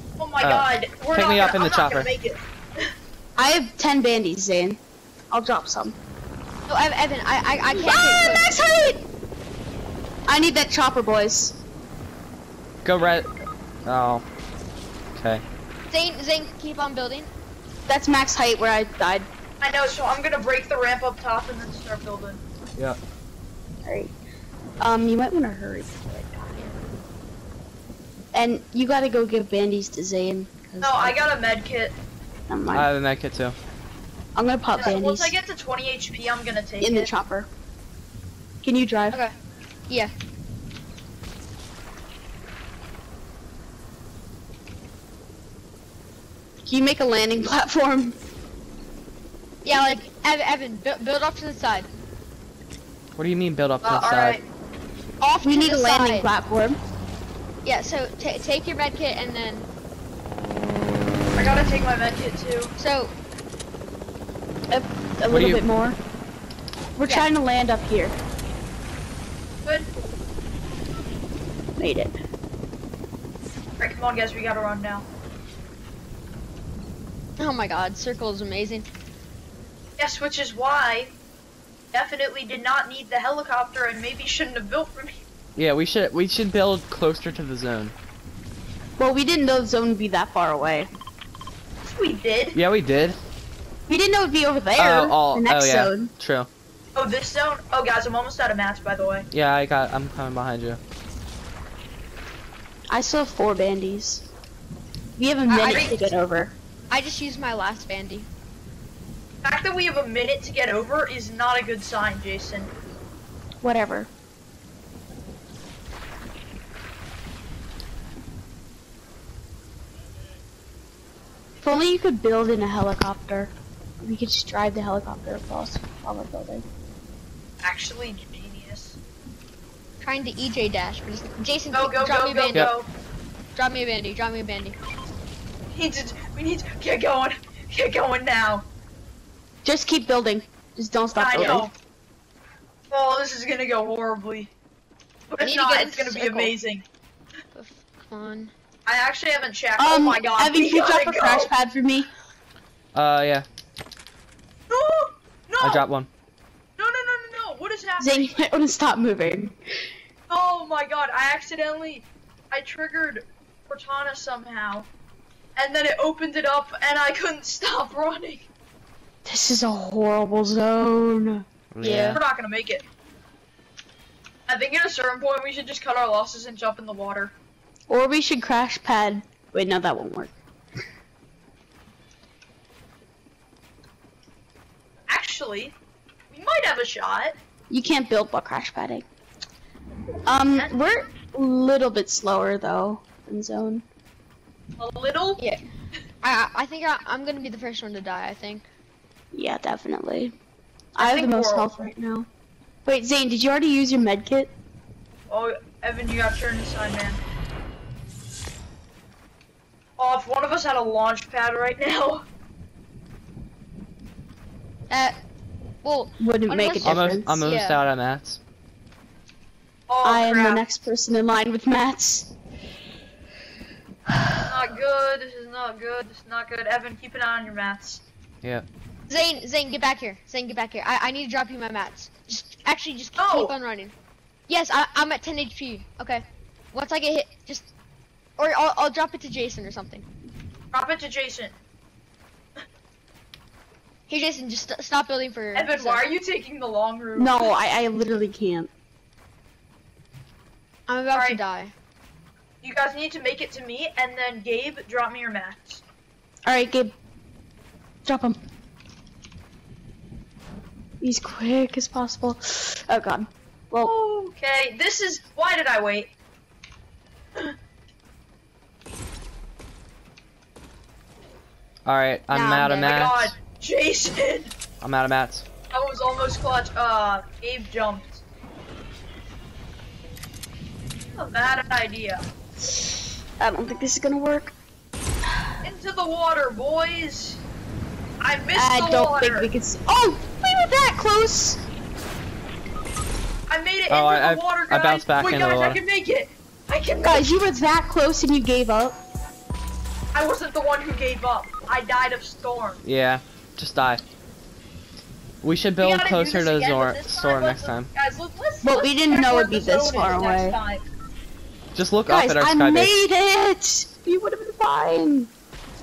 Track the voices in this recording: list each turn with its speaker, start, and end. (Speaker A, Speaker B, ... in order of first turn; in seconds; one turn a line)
Speaker A: 0.2-2.9
Speaker B: 0.4-2.1
Speaker C: 3.4-4.8
Speaker C: 5.3-6.0
Speaker D: 6.7-8.5
Speaker C: 7.7-9.0
Speaker C: 10.3-11.6
Speaker B: 12.8-13.3
Speaker B: 13.8-14.2
Speaker B: 15.1-15.4
Speaker D: 15.9-17.3
Speaker C: 17.9-19.3
Speaker A: 19.6-22.4
Speaker C: 23.8-24.1
Speaker C: 24.8-26.6
Speaker C: 28.3-31.2
Speaker A: 30.8-31.9
Speaker C: 32.5-32.9
Speaker B: 32.7-33.5
Speaker C: 34.4-35.3
Speaker A: 34.7-37.1
Speaker C: 36.8-37.5
Speaker C: 38.6-39.2
Speaker C: 46.6-48.2
Speaker D: 49.6-51.9
Speaker C: 49.7-50.0
Speaker B: 53.1-54.4
Speaker A: 53.8-54.4
Speaker D: 55.2-56.3
Speaker C: 55.4-56.8
Speaker D: 57.6-59.7
Speaker A: 61.3-62.7
Speaker D: 62.8-63.1
Speaker C: 64.7-66.0
Speaker B: 65.3-65.6
Speaker C: 67.0-68.2
Speaker C: 71.8-72.1
Speaker A: 73.8-75.0
Speaker D: 77.4-78.9
Speaker A: 80.0-81.1
Speaker A: 81.9-85.2
Speaker B: 85.5-87.9
Speaker C: 89.0-90.9
Speaker A: 91.8-92.6
Speaker B: 92.5-93.2
Speaker C: 93.9-96.1
Speaker B: 94.8-96.5
Speaker A: 97.0-99.2
Speaker B: 99.3-100.8
Speaker C: 102.9-104.3
Speaker C: 105.2-106.5
Speaker D: 105.5-105.9
Speaker A: 105.6-106.0
Speaker D: 106.9-108.3
Speaker A: 109.4-112.7
Speaker C: 113.6-114.1
Speaker C: 121.6-126.7
Speaker A: 127.6-129.0
Speaker D: 130.0-132.7
Speaker A: 131.7-132.9
Speaker D: 133.5-134.8
Speaker A: 135.7-138.7
Speaker C: 139.6-141.7
Speaker A: 141.1-141.7
Speaker A: 142.9-144.5
Speaker A: 145.3-146.8
Speaker D: 145.4-146.5
Speaker D: 147.5-148.5
Speaker A: 148.8-151.5
Speaker C: 149.8-152.1
Speaker B: 152.9-153.4
Speaker A: 154.7-155.8
Speaker B: 155.6-156.1
Speaker A: 156.8-158.3
Speaker C: 158.0-159.5
Speaker A: 160.3-164.9
Speaker A: 165.6-168.5
Speaker C: 169.2-171.4
Speaker B: 171.7-172.2
Speaker D: 171.8-172.2
Speaker A: 172.1-172.8
Speaker A: 174.5-177.3
Speaker C: 177.9-180.3
Speaker A: 185.1-185.8
Speaker A: 186.3-187.3
Speaker C: 187.7-189.1
Speaker C: 190.2-193.8
Speaker A: 194.8-195.4
Speaker D: 196.2-198.7
Speaker C: 199.3-200.3
Speaker C: 200.9-202.3
Speaker A: 201.0-201.8
Speaker C: 202.8-204.5
Speaker A: 205.3-207.2
Speaker A: 210.0-212.2
Speaker D: 214.9-215.2
Speaker D: 215.8-217.8
Speaker C: 216.2-217.4
Speaker B: 216.8-218.4
Speaker A: 219.9-220.7
Speaker C: 220.0-222.3
Speaker A: 224.4-228.0
Speaker D: 229.1-233.9
Speaker A: 233.2-233.5
Speaker D: 234.5-237.7
Speaker D: 238.4-240.1
Speaker A: 240.7-241.5
Speaker D: 244.1-246.0
Speaker A: 245.5-247.5
Speaker C: 247.2-248.7
Speaker D: 250.9-251.7
Speaker A: 251.1-251.4
Speaker A: 252.6-255.8
Speaker C: 256.5-256.9
Speaker C: 258.0-258.4
Speaker C: 261.0-263.9
Speaker A: 263.8-266.1
Speaker B: 271.9-273.4
Speaker D: 272.3-272.7
Speaker A: 272.8-274.5
Speaker B: 274.8-275.4
Speaker A: 275.7-278.2
Speaker A: 281.1-282.2
Speaker C: 283.4-284.6
Speaker A: 285.6-287.4
Speaker A: 288.2-289.5
Speaker C: 288.5-291.6
Speaker A: 293.5-297.3
Speaker B: 293.9-295.8
Speaker C: 297.0-299.0
Speaker A: 300.1-302.8
Speaker B: 302.8-304.0
Speaker B: 305.4-307.9
Speaker A: 305.8-310.8
Speaker C: 308.6-310.6
Speaker B: 311.7-312.9
Speaker C: 312.1-315.3